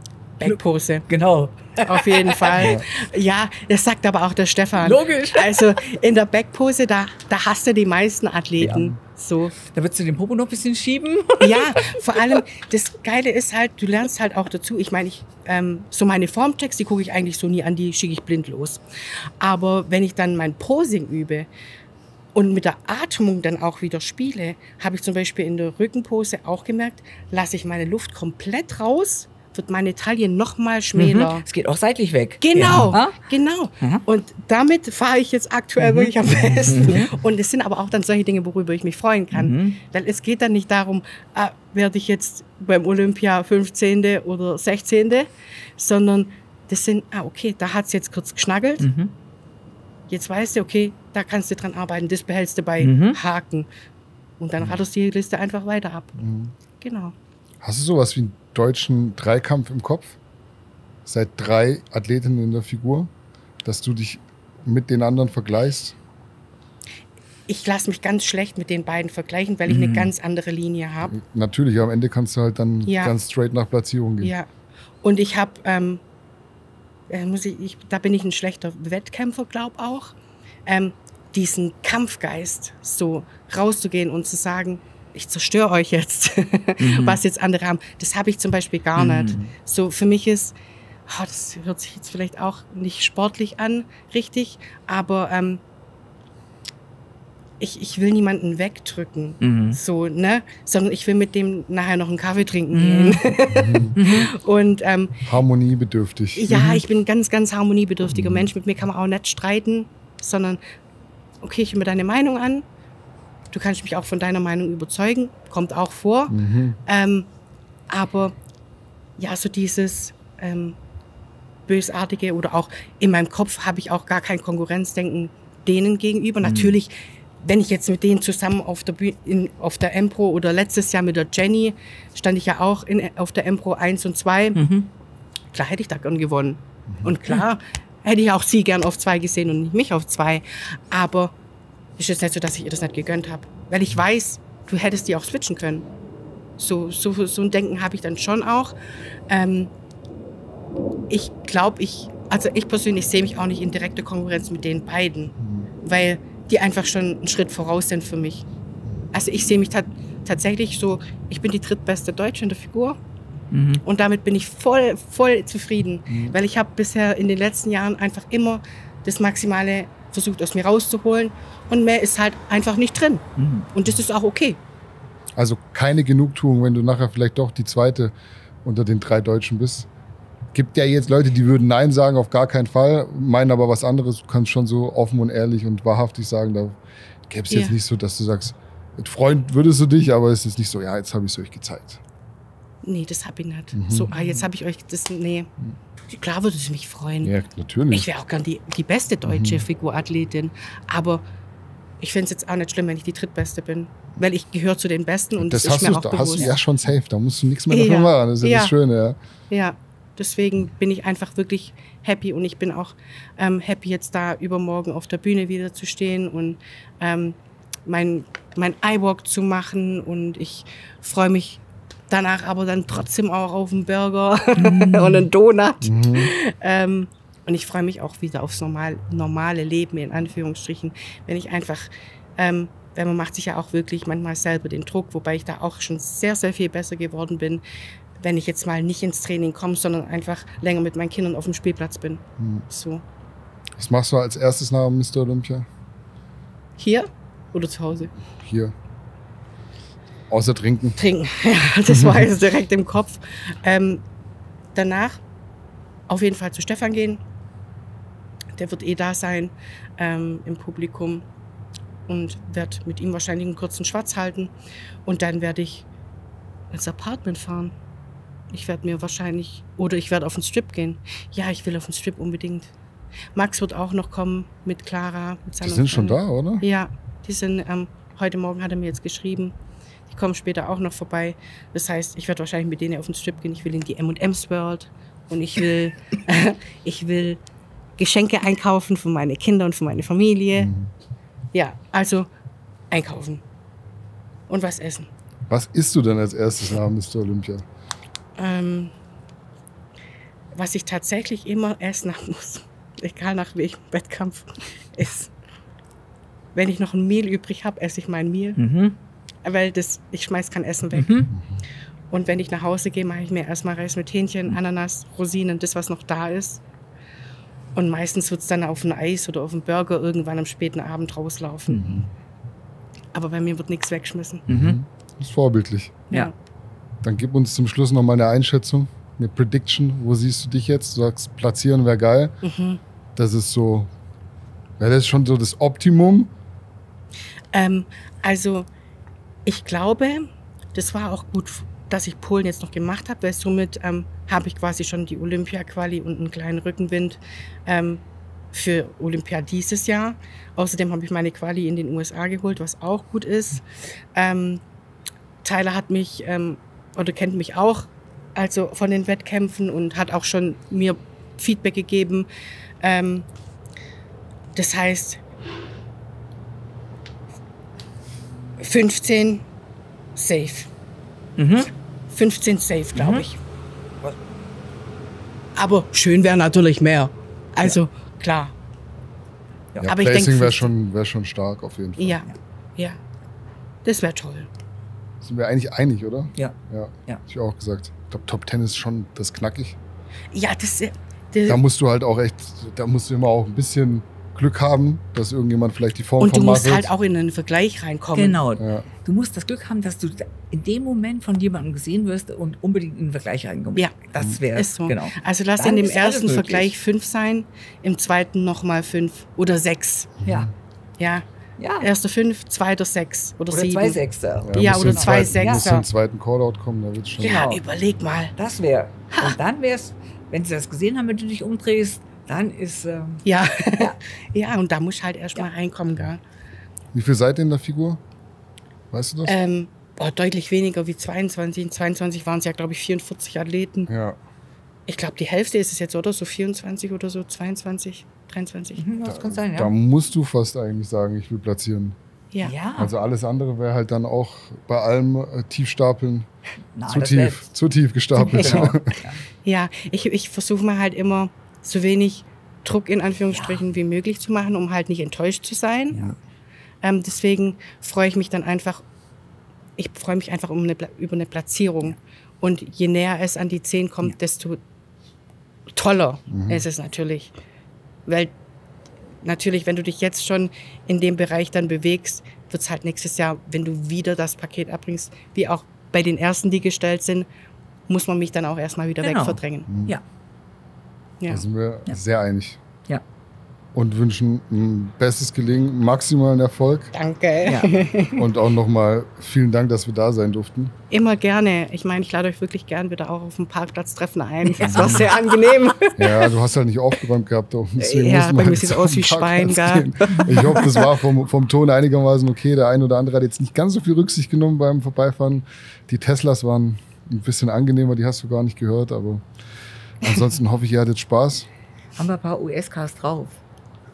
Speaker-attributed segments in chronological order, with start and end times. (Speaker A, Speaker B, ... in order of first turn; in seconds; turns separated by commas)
Speaker A: 0.4-1.1, Speaker B: 0.4-2.8, Speaker A: 1.8-9.6, Speaker C: 2.6-2.8, Speaker B: 4.8-5.7, Speaker B: 8.6-8.9, Speaker B: 9.6-12.0, Speaker A: 11.4-18.8, Speaker A: 19.4-21.5, Speaker A: 22.4-31.4, Speaker B: 31.0-33.2, Speaker A: 32.4-48.9, Speaker C: 32.6-33.0, Speaker B: 35.8-36.1, Speaker B: 36.7-37.1, Speaker B: 39.3-39.8, Speaker B: 48.8-49.1, Speaker A: 50.1-53.7, Speaker B: 52.8-53.2, Speaker A: 54.4-56.1, Speaker C: 56.2-56.5, Speaker A: 56.8-57.1, Speaker C: 57.6-60.2, Speaker C: 61.1-63.1, Speaker C: 63.6-66.0, Speaker A: 67.5-71.2, Speaker B: 69.7-70.1, Speaker C: 71.1-74.3, Speaker A: 72.9-73.1, Speaker A: 74.2-74.5, Speaker A: 75.0-76.0, Speaker A: 77.1-80.1, Speaker A: 80.7-90.5, Speaker B: 86.8-87.2, Speaker B: 89.0-89.4, Speaker A: 91.1-95.6, Speaker A: 97.6-105.2, Speaker B: 99.4-99.8, Speaker B: 102.7-103.2, Speaker C: 103.5-104.0, Speaker B: 104.0-104.3, Speaker C: 105.3-106.5, Speaker A: 106.4-110.6, Speaker B: 106.5-106.8, Speaker C: 108.1-108.5, Speaker A: 111.4-112.7, Speaker A: 113.5-117.3, Speaker C: 116.3-116.8, Speaker A: 117.9-118.3, Speaker A: 119.2-120.8, Speaker A: 121.7-134.6, Speaker C: 126.4-126.7, Speaker B: 134.6-134.9, Speaker A: 135.5-141.3, Speaker A: 142.0-145.9, Speaker A: 146.6-148.8, Speaker A: 149.3-149.7, Speaker A: 151.1-158.4, Speaker A: 159.1-163.0, Speaker B: 163.5-163.8, Speaker A: 163.8-174.6, Speaker C: 166.1-166.3, Speaker B: 173.4-173.7, Speaker C: 175.4-178.1, Speaker C: 178.6-179.9, Speaker C: 180.5-186.8, Speaker C: 187.3-192.0, Speaker A: 187.5-187.8, Speaker A: 192.8-195.5, Speaker C: 193.7-194.2, Speaker A: 196.1-197.3, Speaker C: 197.2-198.1, Speaker A: 197.9-201.2, Speaker C: 199.3-199.6, Speaker A: 202.0-206.5, Speaker C: 205.4-209.2, Speaker A: 207.7-208.7, Speaker A: 209.5-237.6, Speaker B: 224.6-225.3, Speaker C: 225.8-226.3, Speaker A: 238.2-243.0, Speaker C: 242.4-242.7, Speaker C: 243.8-245.7, Speaker A: 246.8-248.1, Speaker C: 248.4-248.7, Speaker C: 250.3-251.0, Speaker A: 251.0-254.0, Speaker C: 251.9-252.3, Speaker A: 254.8-255.2, Speaker A: 256.1-257.2, Speaker A: 258.6-261.2, Speaker A: 262.1-264.5, Speaker A: 265.1-265.9, Speaker A: 266.7-267.7, Speaker A: 268.5-272.7, Speaker A: 273.4-279.5, Speaker C: 275.6-276.6, Speaker A: 280.1-287.4, Speaker A: 288.0-290.7, Speaker C: 290.6-290.9, Speaker A: 291.5-292.3, Speaker A: 292.9-293.4, Speaker A: 294.5-295.1, Speaker C: 295.5-297.6, Speaker A: 298.4-298.9, Speaker A: 300.5-305.3, Speaker A: 306.6-308.6, Speaker B: 308.6-309.0, Speaker A: 309.4-311.3, Speaker B: 310.9-311.3, Speaker C: 311.4-311.6, Speaker A: 312.1-316.6, Speaker A: 317.8-322.0, Speaker C: 321.8-322.1, Speaker A: 323.1-324.4, Speaker B: 324.5-324.8, Speaker C: 324.5-326.1, Speaker C: 327.0-332.4, Speaker A: 332.4-332.8, Speaker C: 333.2-333.9, Speaker C: 334.8-336.3, Speaker A: 337.5-338.7, Speaker A: 339.5-354.6, Speaker A: 355.4-362.3, Speaker A: 362.8-363.3, Speaker A: 364.6-365.2, Speaker A: 368.6-369.4, Speaker A: 370.2-370.7, Speaker B: 371.4-371.7, Speaker A: 372.1-373.4, Speaker B: 373.0-373.2, Speaker A: 375.6-378.5, Speaker A: 379.8-380.7, Speaker C: 379.8-382.2, Speaker A: 382.0-383.0, Speaker A: 383.9-384.5, Speaker C: 385.2-389.8, Speaker A: 390.3-391.6, Speaker C: 391.5-396.9, Speaker A: 396.2-398.4, Speaker B: 398.1-406.7, Speaker C: 398.6-398.9, Speaker A: 404.5-410.1, Speaker C: 410.2-410.5, Speaker A: 411.0-411.2, Speaker B: 411.6-411.9, Speaker A: 411.8-414.0, Speaker B: 413.5-415.6, Speaker C: 414.4-417.5, Speaker A: 414.5-415.9, Speaker A: 417.2-418.3, Speaker B: 417.2-417.6, Speaker B: 418.4-424.0, Speaker A: 423.2-426.2, Speaker C: 426.9-428.0, Speaker C: 428.9-429.4, Speaker A: 429.3-433.9, Speaker C: 433.9-434.2, Speaker A: 434.9-438.9, Speaker B: 438.8-439.7, Speaker C: 439.1-442.0, Speaker B: 442.4-442.9, Speaker C: 442.8-446.3, Speaker B: 446.8-447.4, Speaker C: 446.9-449.0, Speaker B: 448.3-449.2, Speaker A: 448.3-448.7, Speaker A: 449.4-456.0, Speaker B: 453.3-453.6, Speaker A: 456.8-458.8, Speaker A: 459.8-464.6, Speaker A: 465.7-467.3, Speaker C: 466.3-466.6, Speaker A: 468.1-468.3, Speaker A: 469.2-477.3, Speaker A: 477.9-479.7, Speaker B: 479.0-480.0, Speaker C: 479.7-479.9, Speaker C: 481.3-482.6, Speaker C: 483.7-486.9, Speaker A: 486.9-488.2, Speaker B: 487.4-487.7, Speaker C: 488.2-490.7, Speaker A: 490.9-496.3, Speaker C: 494.6-495.1, Speaker B: 494.6-495.1, Speaker C: 496.0-509.2, Speaker A: 497.8-500.9, Speaker C: 510.0-511.5, Speaker B: 512.0-513.4